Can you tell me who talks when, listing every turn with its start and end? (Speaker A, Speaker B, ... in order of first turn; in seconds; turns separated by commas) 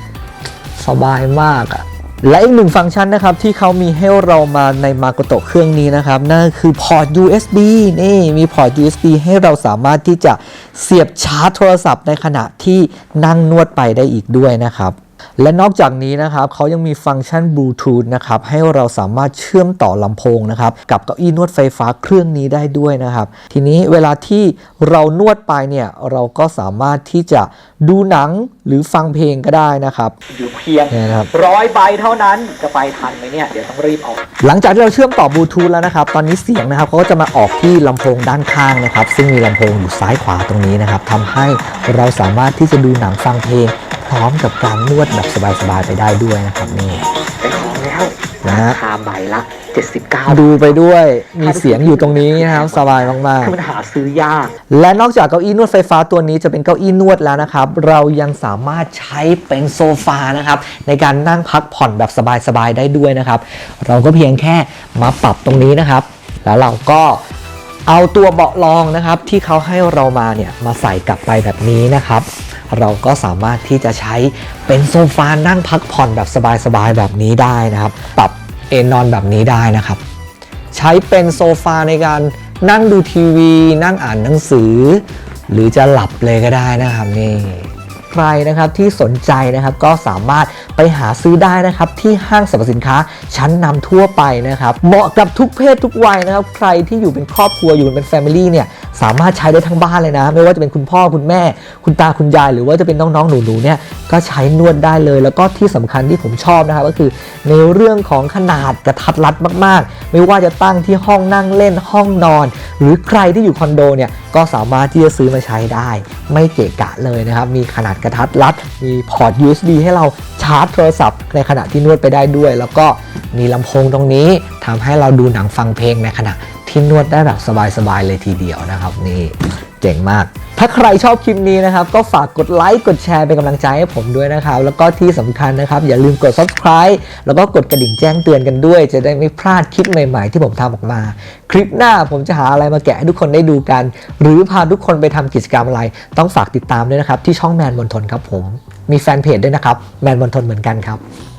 Speaker A: 0.8-47.6, Speaker B: 47.5-48.1, Speaker A: 48.3-49.4, Speaker B: 48.8-50.3, Speaker A: 50.2-53.6, Speaker B: 51.5-53.0, Speaker B: 53.5-54.5, Speaker A: 54.6-67.2, Speaker A: 67.9-80.0, Speaker A: 80.7-151.0